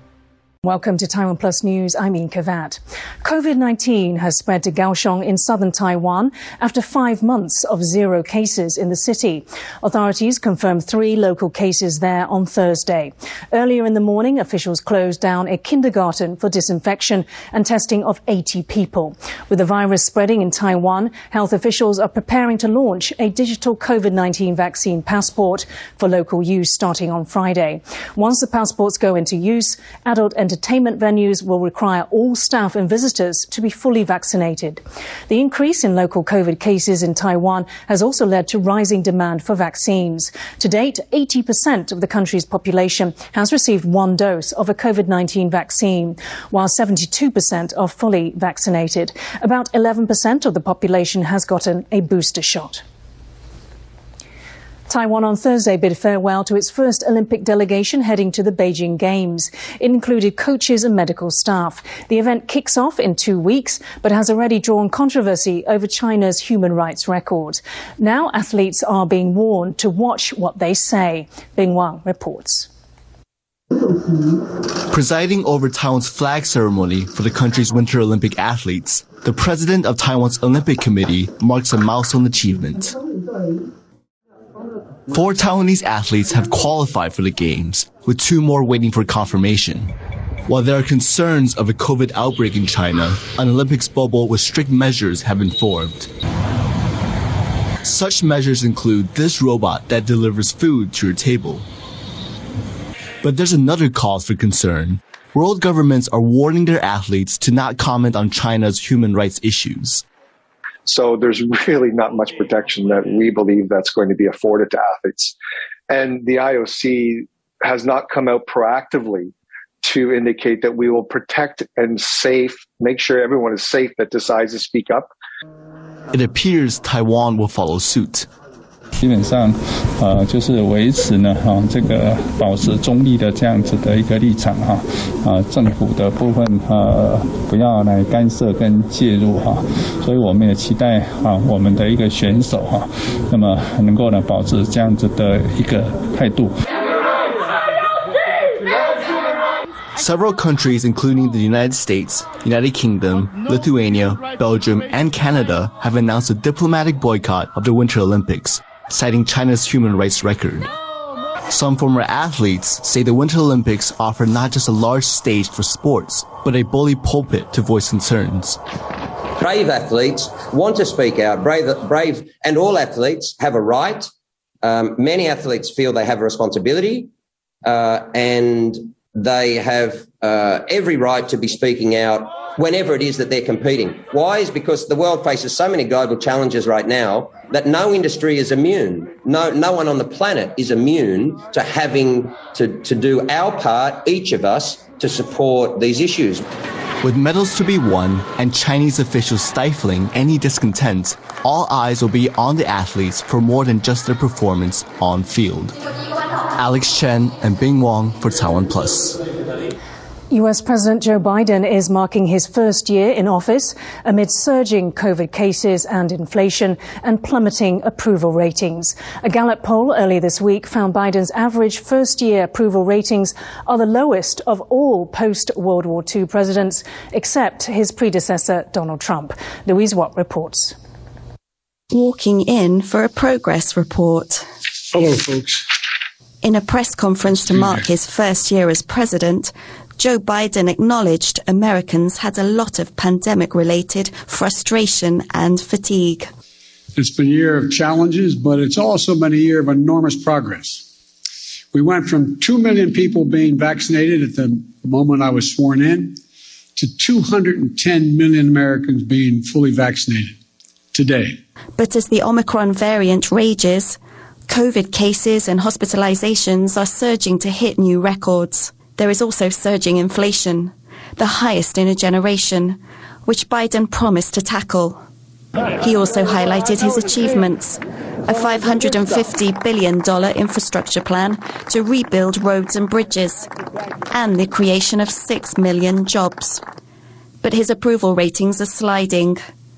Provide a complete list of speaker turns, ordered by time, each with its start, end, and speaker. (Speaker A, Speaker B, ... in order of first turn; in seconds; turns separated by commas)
Speaker A: 0.6-52.8, Speaker A: 54.9-72.7, Speaker B: 74.9-83.0, Speaker B: 85.1-89.9, Speaker B: 90.5-96.1, Speaker B: 97.8-101.7, Speaker B: 103.2-110.0, Speaker C: 110.8-115.3, Speaker C: 115.9-125.1, Speaker B: 126.1-128.3, Speaker D: 129.0-146.5, Speaker B: 150.0-160.7, Speaker B: 161.5-168.6, Speaker E: 169.4-174.1, Speaker E: 174.6-177.1, Speaker E: 177.6-196.4, Speaker B: 197.0-205.8, Speaker B: 206.6-209.2, Speaker A: 210.3-230.7, Speaker F: 231.9-234.5, Speaker G: 234.9-235.6, Speaker F: 236.4-246.3, Speaker G: 246.9-250.8, Speaker G: 251.7-256.2, Speaker G: 256.8-260.4, Speaker G: 260.9-261.4, Speaker F: 261.8-264.0, Speaker F: 264.5-275.0, Speaker F: 275.8-283.5, Speaker F: 284.1-286.6, Speaker F: 287.4-289.4